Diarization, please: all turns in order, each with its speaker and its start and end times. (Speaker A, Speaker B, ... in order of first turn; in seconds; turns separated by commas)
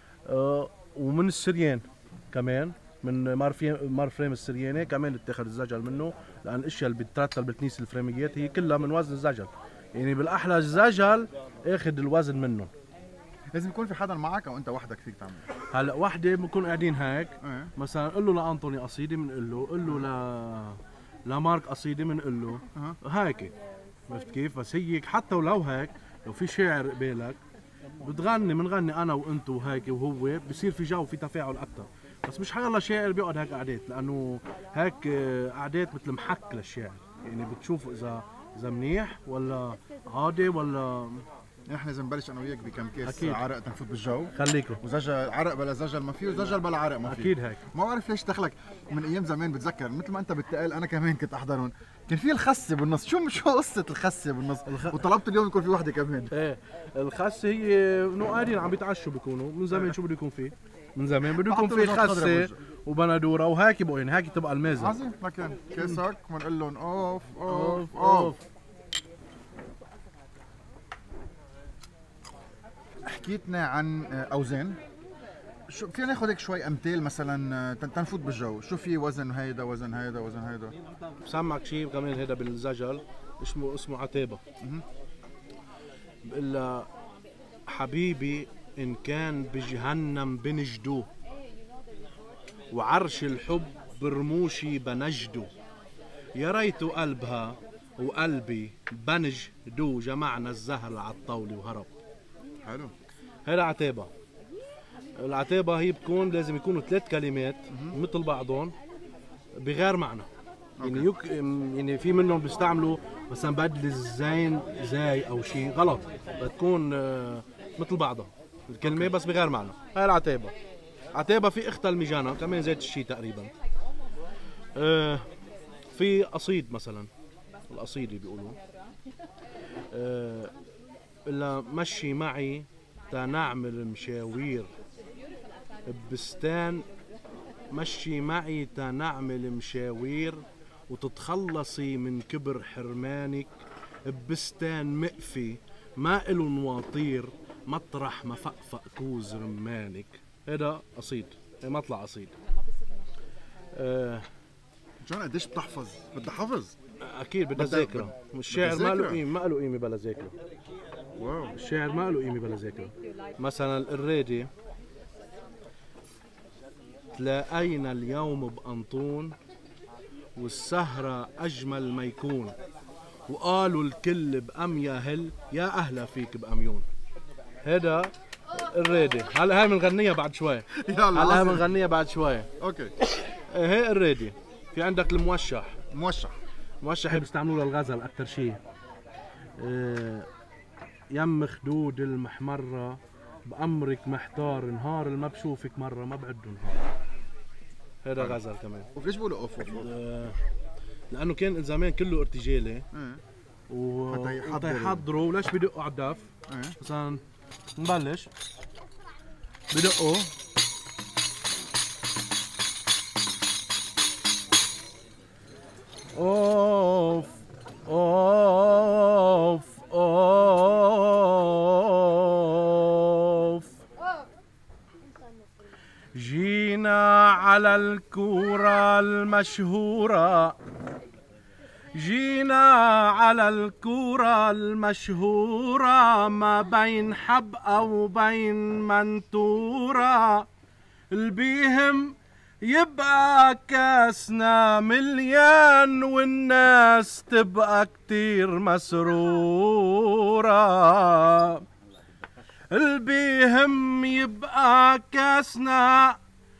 Speaker A: 0.3-12.7, Speaker B: 13.5-15.5, Speaker A: 15.7-23.5, Speaker B: 17.4-17.7, Speaker A: 24.1-27.4, Speaker A: 28.0-41.2, Speaker B: 41.7-56.3, Speaker A: 43.0-43.4, Speaker A: 44.4-44.8, Speaker A: 47.0-47.6, Speaker A: 54.7-55.0, Speaker A: 56.3-65.0, Speaker B: 61.4-62.5, Speaker B: 64.7-68.3, Speaker A: 67.5-68.4, Speaker B: 73.0-74.8, Speaker B: 75.7-80.7, Speaker A: 81.2-84.4, Speaker A: 86.3-86.8, Speaker A: 87.7-91.1, Speaker A: 92.7-95.5, Speaker A: 96.4-101.9, Speaker B: 102.7-102.9, Speaker A: 103.5-104.1, Speaker A: 105.2-108.7, Speaker B: 107.7-108.0, Speaker A: 109.6-110.3, Speaker B: 110.8-111.1, Speaker A: 110.8-120.5, Speaker B: 118.8-119.1, Speaker A: 121.1-123.5, Speaker A: 124.8-125.2, Speaker A: 125.9-127.1, Speaker A: 127.7-128.5, Speaker A: 129.9-130.5, Speaker A: 131.3-134.7, Speaker A: 135.9-136.8, Speaker A: 137.7-143.5, Speaker A: 144.1-152.3, Speaker A: 153.7-154.2, Speaker B: 155.0-156.8, Speaker A: 157.1-160.3, Speaker B: 157.5-159.2, Speaker B: 161.2-161.5, Speaker A: 161.4-164.5, Speaker A: 167.2-169.3, Speaker A: 170.4-172.5, Speaker A: 173.3-176.8, Speaker A: 177.6-178.1, Speaker A: 178.7-182.5, Speaker B: 180.8-181.6, Speaker B: 182.6-182.9, Speaker A: 183.5-185.7, Speaker B: 185.9-186.3, Speaker A: 186.8-188.6, Speaker A: 189.6-190.3, Speaker A: 191.1-196.9, Speaker A: 198.0-198.9, Speaker B: 198.9-199.9, Speaker A: 199.7-200.3, Speaker A: 201.1-202.8, Speaker B: 202.9-203.2, Speaker A: 203.7-206.3, Speaker B: 204.1-205.0, Speaker B: 206.5-206.7, Speaker A: 206.8-207.2, Speaker A: 207.8-208.3, Speaker A: 209.7-210.3, Speaker A: 216.2-223.7, Speaker A: 226.2-230.5, Speaker A: 232.0-240.4, Speaker A: 241.1-242.1, Speaker A: 242.7-251.6, Speaker A: 252.7-256.2